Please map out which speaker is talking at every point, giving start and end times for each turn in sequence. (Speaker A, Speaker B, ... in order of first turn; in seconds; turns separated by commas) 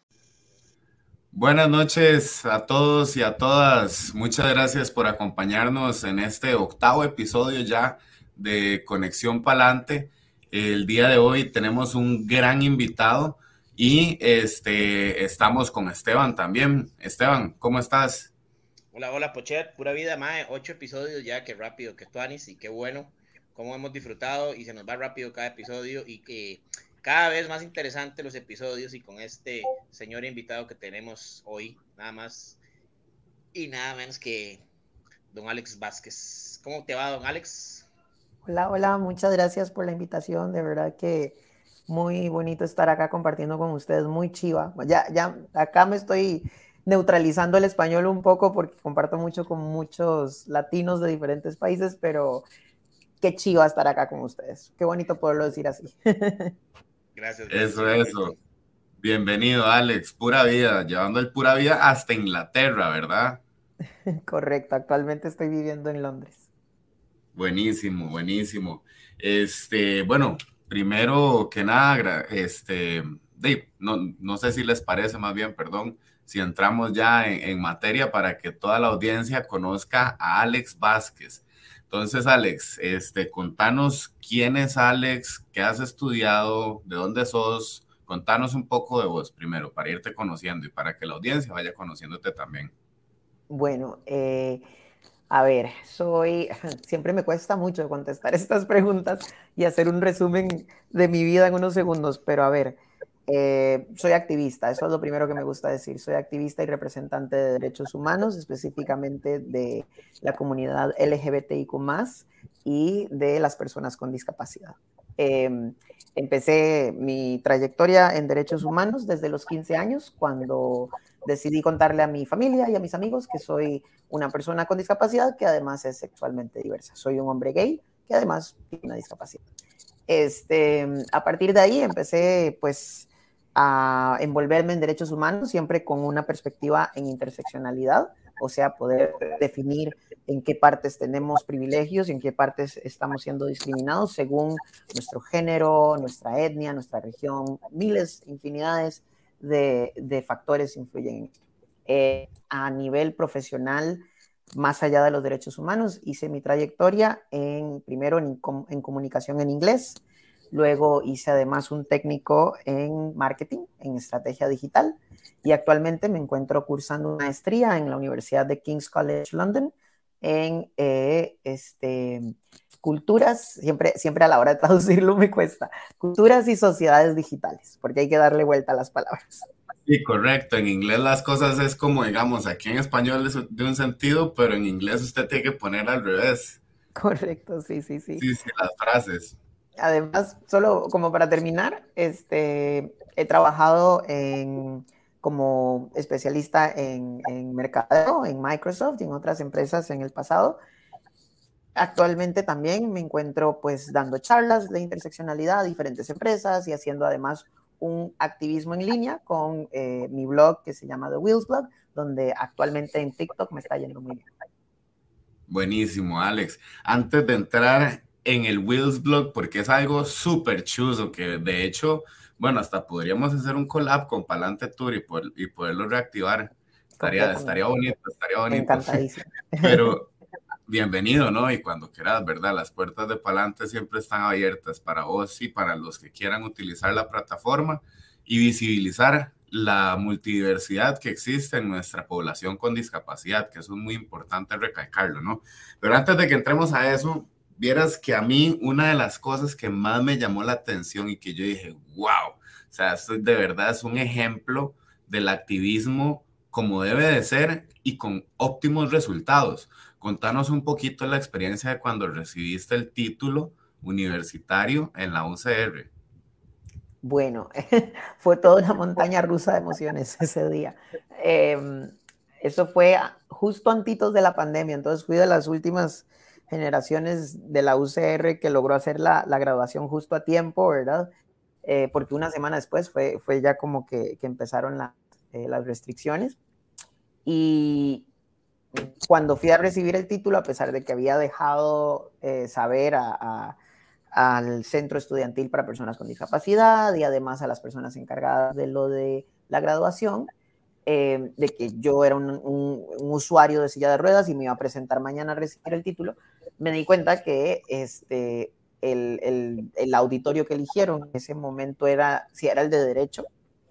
Speaker A: 1.3-18.3, Speaker B: 18.9-32.6, Speaker B: 33.5-34.6, Speaker B: 35.3-37.9, Speaker C: 38.5-41.4, Speaker C: 41.9-52.5, Speaker C: 53.2-56.5, Speaker B: 57.1-58.4, Speaker A: 57.5-58.3, Speaker A: 59.0-63.4, Speaker C: 64.1-66.5, Speaker A: 67.3-92.7, Speaker C: 93.5-94.6, Speaker C: 95.3-129.4, Speaker C: 130.1-172.3, Speaker C: 172.8-179.5, Speaker A: 179.8-186.6, Speaker C: 187.0-188.2, Speaker A: 188.2-189.4, Speaker C: 189.8-200.6, Speaker C: 201.8-214.2, Speaker A: 215.5-226.5, Speaker C: 227.0-227.6, Speaker A: 227.0-229.0, Speaker C: 228.5-229.9, Speaker A: 229.6-230.1, Speaker A: 230.7-265.9, Speaker C: 267.0-281.1, Speaker C: 281.6-286.4, Speaker C: 287.2-288.1, Speaker C: 288.8-293.6, Speaker C: 294.1-300.3, Speaker C: 300.9-313.3